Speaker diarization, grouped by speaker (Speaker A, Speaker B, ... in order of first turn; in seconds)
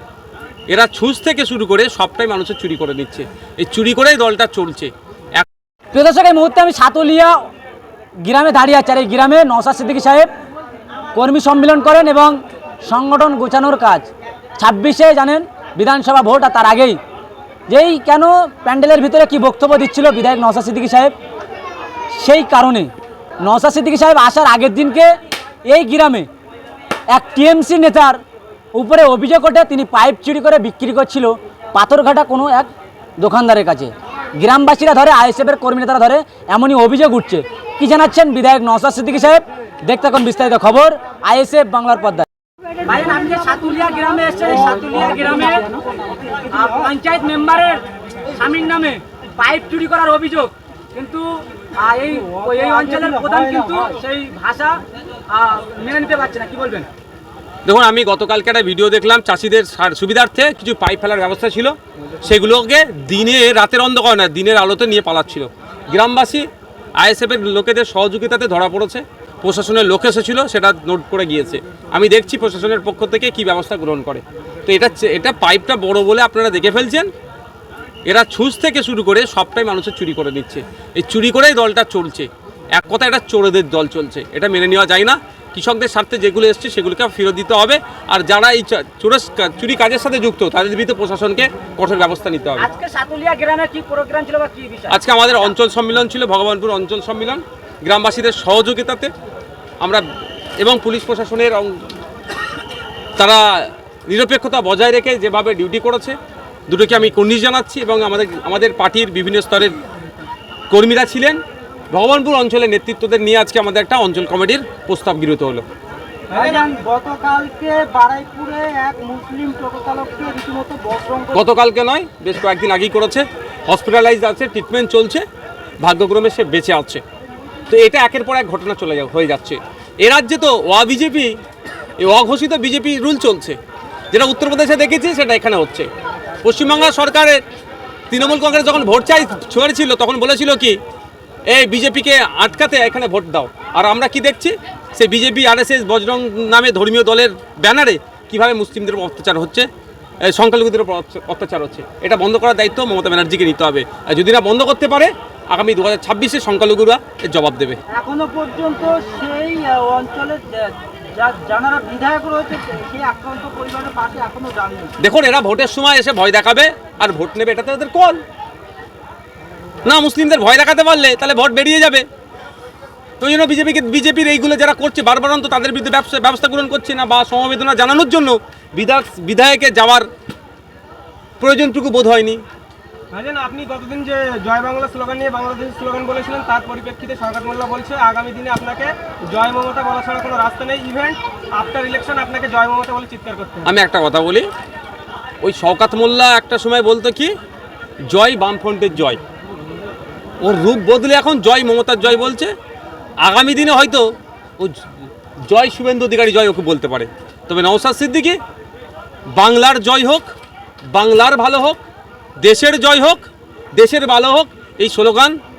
Speaker A: 0.7-5.5, 57.6-66.5, 67.0-77.1, 78.0-92.7, 94.9-99.1, 100.6-101.8, 103.2-106.2, 106.7-109.8, 110.7-111.4, 111.9-115.7, 121.3-125.2, 125.8-127.0, 127.7-131.3, 132.0-133.6, 134.1-135.9, 136.4-137.4, 138.1-140.8, 141.5-149.7, 150.2-157.8, 165.0-168.2, 169.8-172.1, 173.2-180.1, 181.4-182.4, 193.7-194.5, 195.4-197.3, 198.1-199.2, 200.4-202.5, 203.2-204.1, 204.6-204.9, 205.5-208.4, 209.3-210.3, 210.9-211.8, 212.4-215.4
Speaker B: 5.9-7.5, 8.2-10.3, 11.2-17.0, 17.7-21.1, 22.2-25.1, 25.7-26.3, 27.1-28.2, 28.7-42.3, 42.8-45.7, 46.5-54.8, 55.3-56.9, 92.6-95.3
Speaker C: 44.6-46.9, 52.1-53.9, 116.3-121.4, 157.9-164.9
Speaker D: 183.1-193.7